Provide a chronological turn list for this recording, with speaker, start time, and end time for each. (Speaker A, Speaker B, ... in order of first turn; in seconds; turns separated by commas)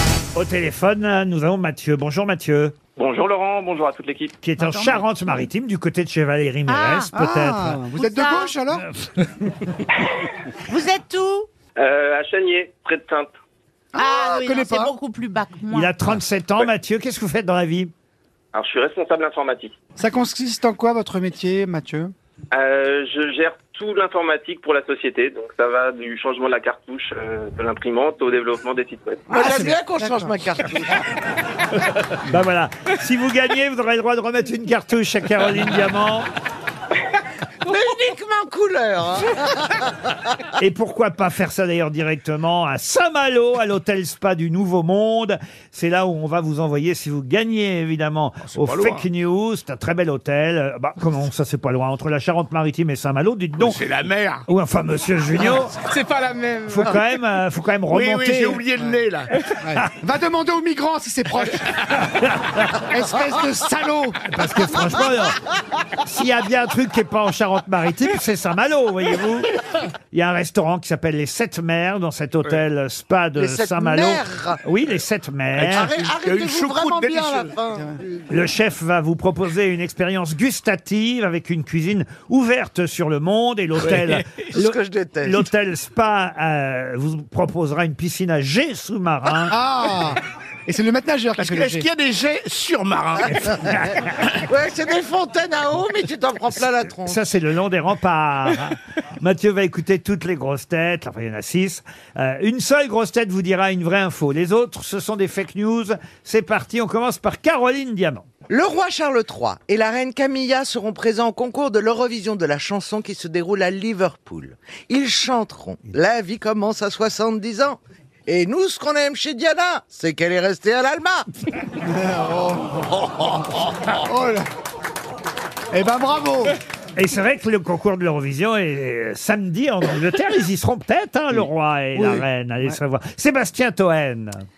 Speaker A: 0.3-2.8, Speaker B: 3.0-4.3, Speaker A: 4.4-7.9, Speaker C: 4.6-5.5, Speaker C: 6.7-7.1, Speaker D: 7.1-8.8, Speaker C: 8.0-8.6, Speaker A: 9.2-9.6, Speaker C: 10.7-11.5, Speaker B: 11.8-13.3, Speaker C: 13.9-16.1, Speaker D: 14.0-14.9, Speaker A: 15.7-17.9, Speaker B: 18.5-19.8, Speaker D: 20.0-22.1, Speaker B: 22.5-29.3, Speaker A: 29.3-29.8, Speaker E: 29.3-31.0, Speaker D: 30.0-30.3, Speaker A: 32.1-36.3, Speaker E: 37.6-39.9, Speaker A: 40.6-53.8, Speaker F: 48.4-49.1, Speaker F: 53.6-54.5, Speaker A: 54.5-55.8, Speaker F: 56.0-56.9, Speaker A: 56.6-58.6, Speaker F: 57.9-59.4, Speaker D: 59.6-62.0, Speaker A: 62.2-62.8, Speaker D: 62.9-64.2, Speaker A: 64.2-65.4, Speaker A: 66.0-75.9, Speaker E: 73.4-74.6, Speaker F: 75.5-77.6, Speaker E: 75.7-78.0, Speaker A: 78.3-89.5, Speaker F: 84.0-84.4, Speaker E: 84.5-85.5, Speaker D: 89.5-91.9, Speaker F: 91.4-93.5, Speaker E: 94.1-97.2, Speaker A: 97.0-108.3, Speaker E: 108.5-121.2, Speaker D: 121.8-124.5, Speaker D: 125.7-126.5, Speaker A: 127.0-134.4, Speaker D: 131.9-132.8